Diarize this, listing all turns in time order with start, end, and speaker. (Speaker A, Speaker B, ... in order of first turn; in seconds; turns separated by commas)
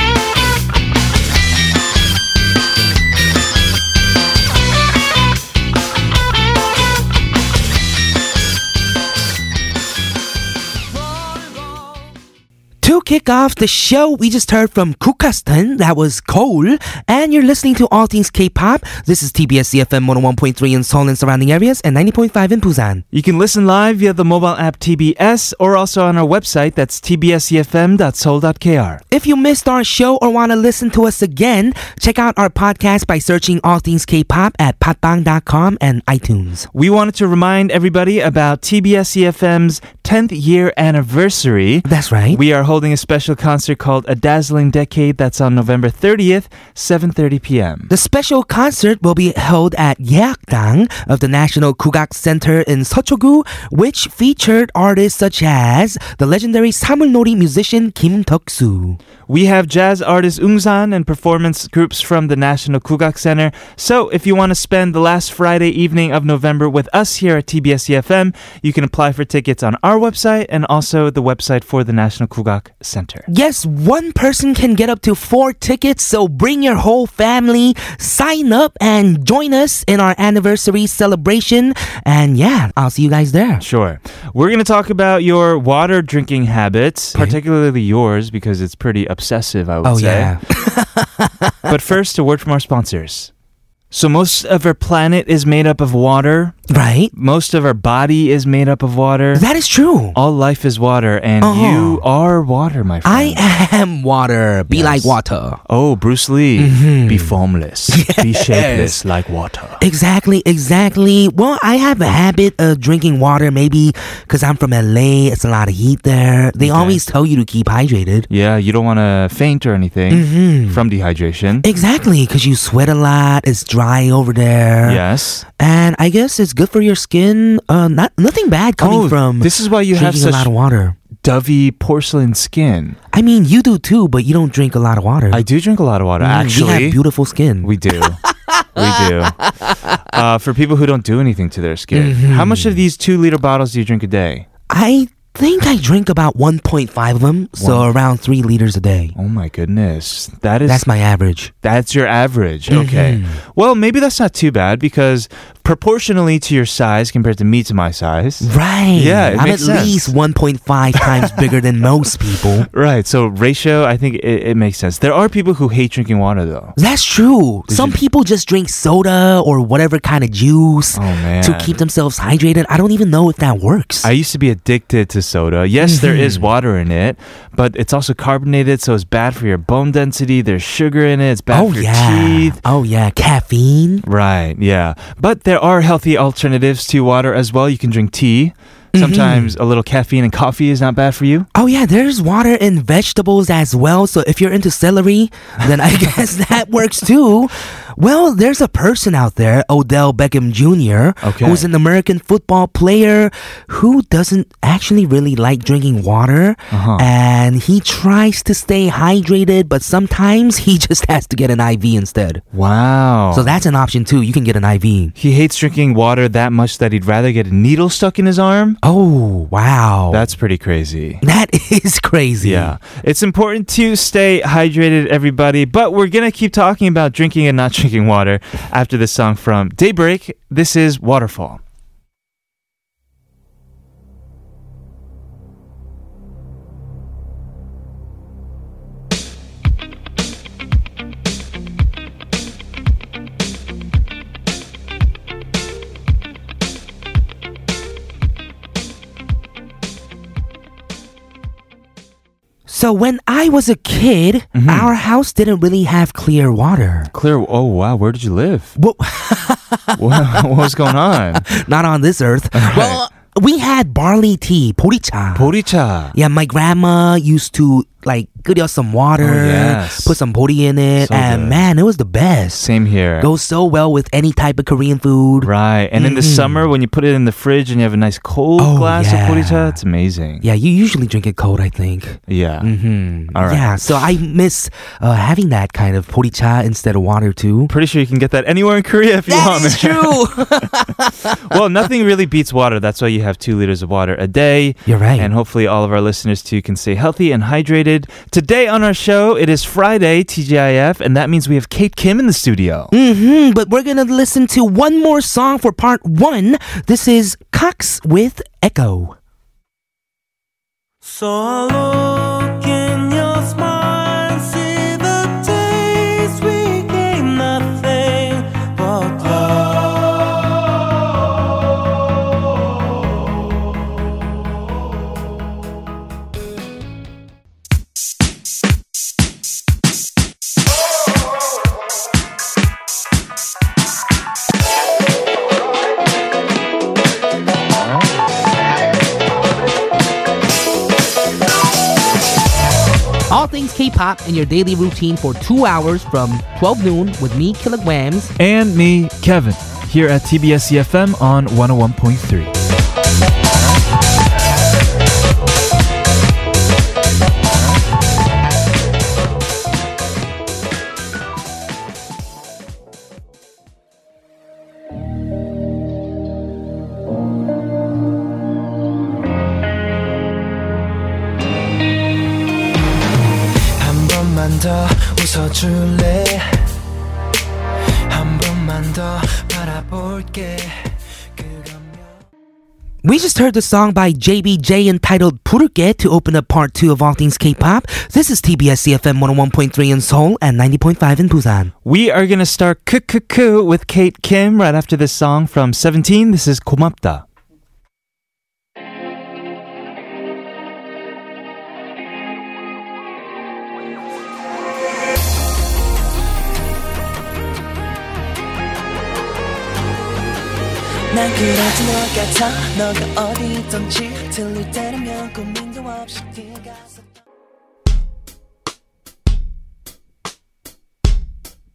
Speaker A: 12.8-23.0, Speaker B: 23.1-29.0, Speaker A: 29.1-36.7, Speaker B: 36.7-47.9, Speaker A: 41.8-42.4, Speaker A: 47.9-59.0, Speaker B: 59.3-73.2, Speaker A: 73.3-83.6, Speaker B: 83.6-90.4, Speaker A: 89.8-91.7, Speaker B: 91.7-93.3, Speaker B: 93.9-96.6, Speaker A: 96.7-97.1, Speaker B: 97.1-99.5, Speaker A: 99.3-100.2, Speaker B: 100.1-103.4, Speaker A: 101.4-102.0, Speaker A: 103.0-105.6, Speaker B: 104.7-105.1, Speaker B: 105.7-109.8, Speaker A: 106.6-107.3, Speaker A: 107.9-109.0, Speaker A: 109.8-118.3, Speaker B: 116.6-117.0, Speaker B: 118.3-121.7, Speaker A: 120.1-120.8, Speaker A: 121.6-125.0, Speaker B: 124.8-125.5, Speaker A: 125.6-131.0, Speaker B: 128.8-130.5, Speaker B: 131.2-133.0, Speaker A: 133.1-135.4, Speaker B: 135.3-137.0, Speaker A: 136.2-137.7, Speaker B: 137.6-138.2, Speaker A: 138.5-139.0, Speaker B: 138.8-139.5, Speaker B: 140.0-144.4, Speaker A: 141.9-142.8, Speaker A: 144.7-149.1, Speaker B: 147.6-147.9, Speaker B: 149.2-150.9, Speaker A: 150.7-151.5, Speaker B: 151.6-160.1, Speaker A: 152.7-153.4, Speaker A: 158.4-162.7, Speaker B: 161.0-161.3, Speaker B: 162.7-166.8, Speaker A: 166.8-174.1, Speaker B: 167.7-168.0, Speaker B: 170.9-171.8, Speaker B: 174.0-182.6, Speaker A: 175.8-176.5, Speaker A: 181.5-184.0, Speaker B: 184.1-191.5, Speaker A: 188.9-189.6, Speaker A: 191.5-212.4, Speaker B: 201.2-201.7, Speaker B: 206.7-207.1, Speaker B: 212.5-213.6, Speaker A: 213.3-215.1, Speaker B: 215.2-218.8, Speaker A: 218.8-220.2, Speaker B: 220.1-221.2, Speaker A: 221.2-222.8, Speaker B: 222.4-231.6, Speaker A: 252.7-257.1, Speaker B: 254.5-254.9, Speaker B: 257.1-258.7, Speaker A: 258.8-265.5, Speaker B: 259.9-261.4, Speaker B: 262.5-263.0, Speaker B: 265.3-266.1, Speaker A: 266.1-272.6, Speaker B: 269.2-270.2, Speaker B: 271.0-271.6, Speaker B: 272.6-273.3, Speaker A: 273.2-276.7, Speaker B: 275.4-280.4, Speaker A: 278.6-279.8, Speaker A: 280.4-287.7, Speaker B: 282.3-282.7, Speaker B: 283.3-283.8, Speaker B: 287.7-290.3, Speaker A: 289.2-291.3, Speaker B: 291.5-302.9, Speaker A: 294.9-295.3, Speaker A: 302.9-309.1, Speaker C: 311.0-320.3, Speaker A: 343.3-348.3, Speaker B: 348.4-352.5, Speaker C: 373.8-376.6, Speaker C: 378.1-380.8, Speaker C: 381.3-382.1, Speaker A: 383.0-391.7, Speaker B: 391.8-397.2, Speaker C: 411.1-417.0